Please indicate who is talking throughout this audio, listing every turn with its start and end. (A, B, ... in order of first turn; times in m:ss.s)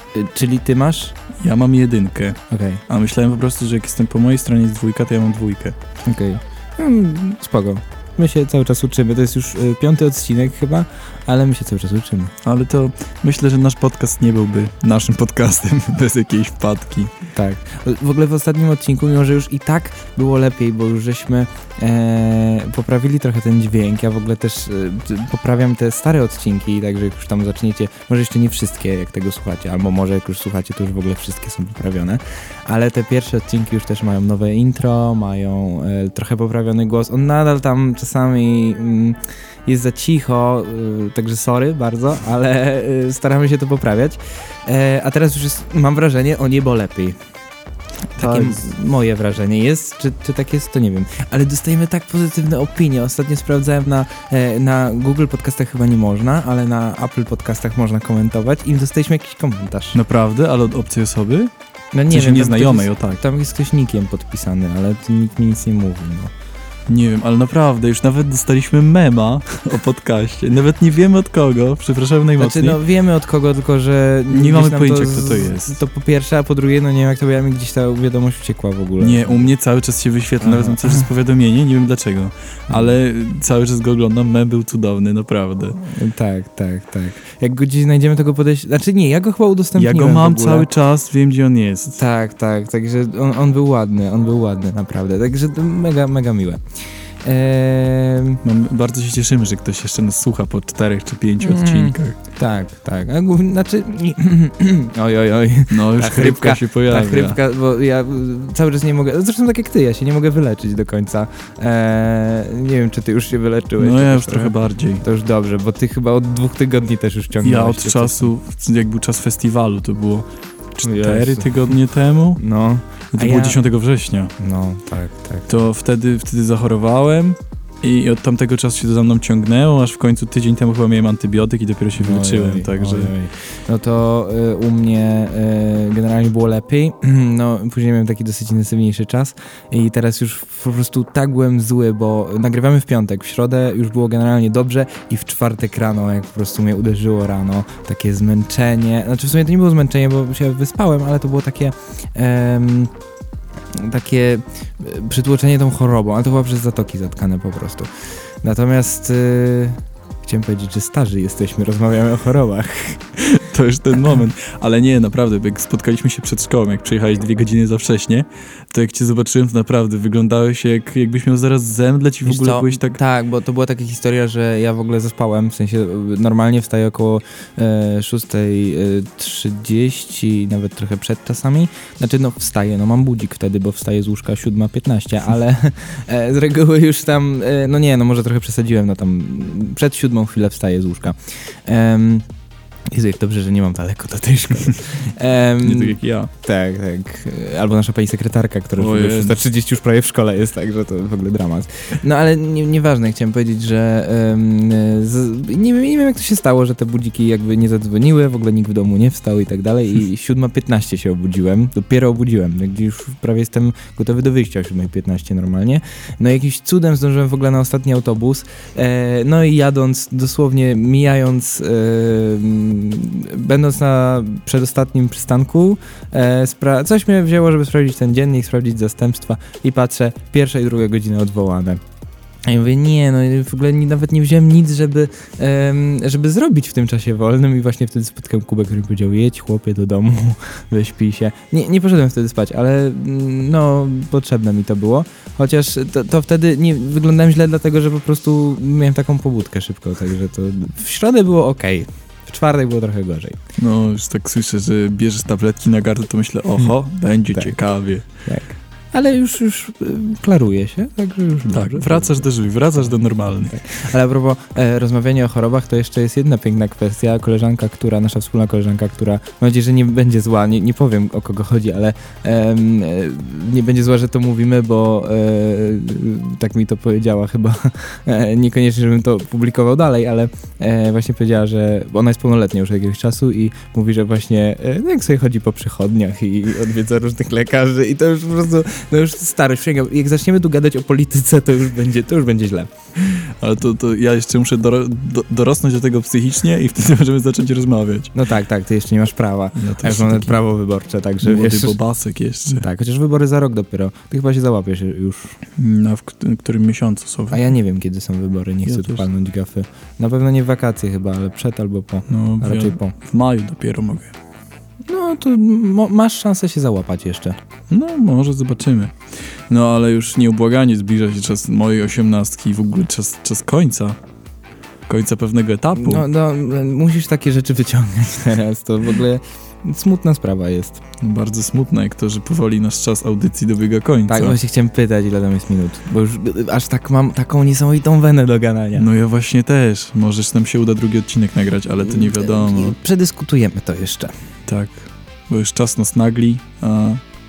0:00.1-0:01.1 A
0:01.4-0:05.8 B
0:02.5-0:02.8 A
0:06.0-0:12.3 A
0:12.4-0:17.1 B
0:17.3-0:47.2 A
0:48.1-1:00.0 A
0:48.2-0:48.7 B
0:59.9-1:01.5 B
1:01.9-1:06.3 A
1:02.1-1:03.2 B
1:06.9-1:12.8 B
1:12.4-1:19.5 A
1:14.3-1:15.8 B
1:19.0-1:25.8 B
1:20.4-1:21.1 A
1:25.8-1:30.7 A
1:29.7-1:32.0 B
1:32.0-1:36.6 A
1:37.2-1:38.4 A
1:38.4-1:42.2 B
1:41.4-1:58.3 A
1:45.7-1:47.4 B
1:53.8-1:55.0 B
1:57.4-2:02.4 B
2:00.8-2:01.7 A
2:02.4-2:03.6 A
2:03.1-2:04.3 B
2:04.4-2:05.6 A
2:05.5-2:13.1 B
2:12.0-2:32.9 A
2:33.7-2:37.9 A
2:38.4-2:43.0 A
2:43.2-2:53.0 B
2:52.2-3:12.2 A
3:12.9-3:51.8 A
3:15.6-3:16.3 B
3:18.8-3:19.4 B
3:52.5-4:13.4 A
4:13.6-4:18.0 B
4:18.2-4:22.3 A
4:21.5-4:23.6 B
4:23.5-4:52.7 A
4:53.0-4:58.1 B
4:58.1-5:01.8 A
4:59.5-5:00.4 B
5:01.2-5:02.7 B
5:02.5-5:05.3 A
5:05.6-5:07.4 B
5:07.3-5:12.9 A
5:08.6-5:09.0 B
5:12.1-5:14.1 B
5:14.9-5:17.4 A
5:17.7-5:18.9 B
5:19.5-5:24.0 B
5:24.9-5:26.0 B
5:25.7-5:30.8 A
5:31.0-5:34.4 B
5:34.1-5:38.9 A
5:38.7-5:42.8 B
5:41.9-5:44.1 A
5:44.5-5:47.0 B